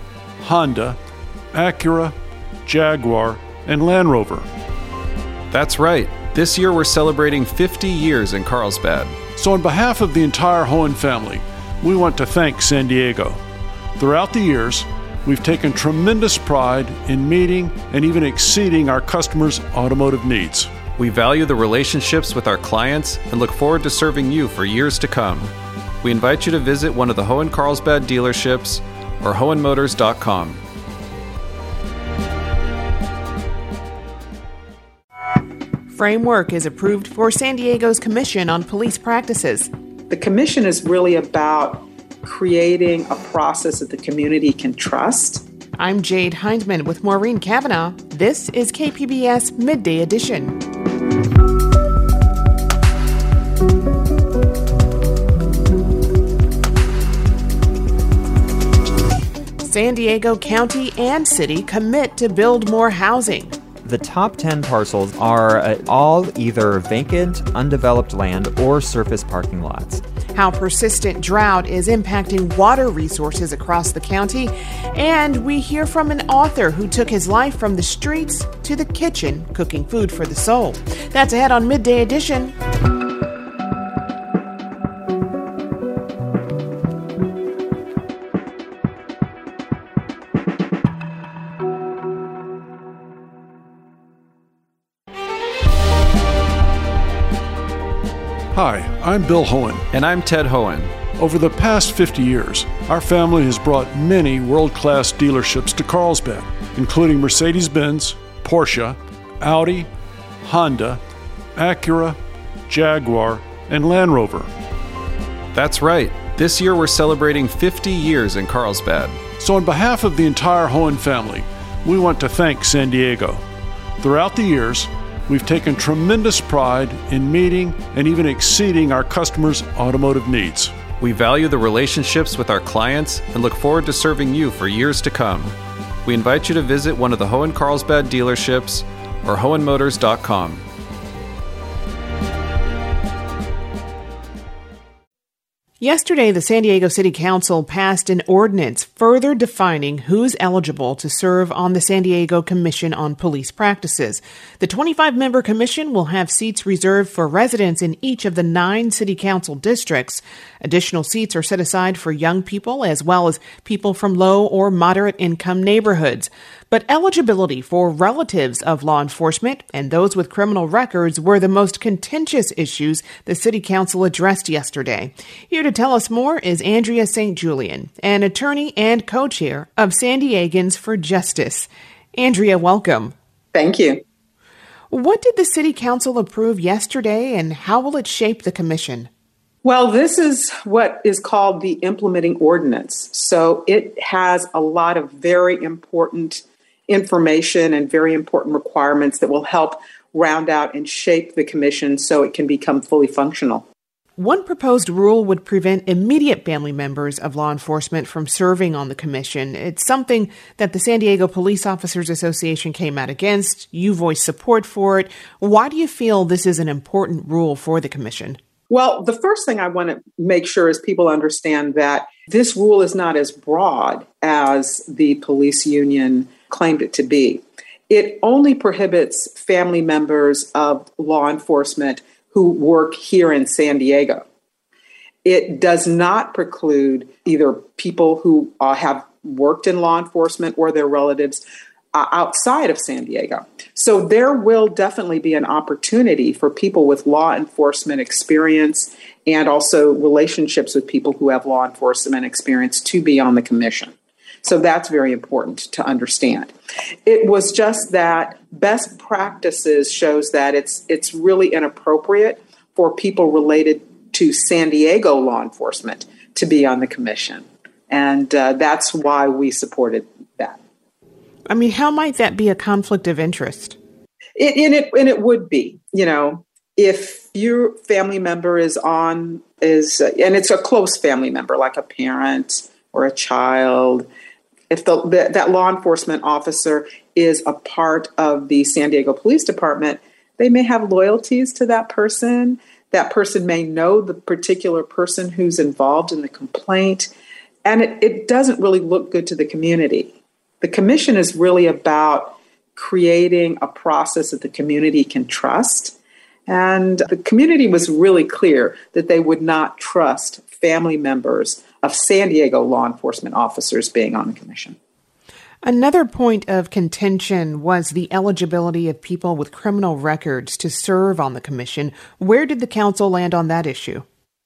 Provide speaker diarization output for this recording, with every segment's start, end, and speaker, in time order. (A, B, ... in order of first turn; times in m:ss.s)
0:00.4-0:01.0 A
0:01.5-0:04.5 A
0:05.5-0:09.2 B
0:09.4-0:13.4 A
0:14.0-0:20.8 A
0:21.0-0:30.6 B
0:35.9-0:39.7 C
0:40.1-0:45.4 D
0:45.8-0:50.6 C
0:59.6-1:03.5 C
1:03.8-1:10.0 E
1:10.3-1:22.6 C
1:38.5-1:39.9 A
1:39.9-1:41.0 B
1:41.2-1:49.9 A
1:50.4-1:51.0 A
1:51.6-1:54.5 A
1:55.5-1:59.2 B
1:59.4-2:03.4 A
2:04.0-2:10.8 A
2:11.0-2:20.6 B
2:25.8-3:03.1 C
3:03.5-3:04.0 D
3:04.9-3:09.1 C
3:09.6-3:23.7 D
3:24.2-3:38.4 C
3:38.7-3:54.2 D
3:55.2-4:01.4 D
4:01.9-4:16.5 D
4:17.1-4:30.6 D
4:31.5-4:33.8 C
4:34.4-4:44.1 D
4:44.7-4:57.1 D
4:57.6-5:06.0 D
5:06.5-5:14.8 D
5:15.6-5:24.0 C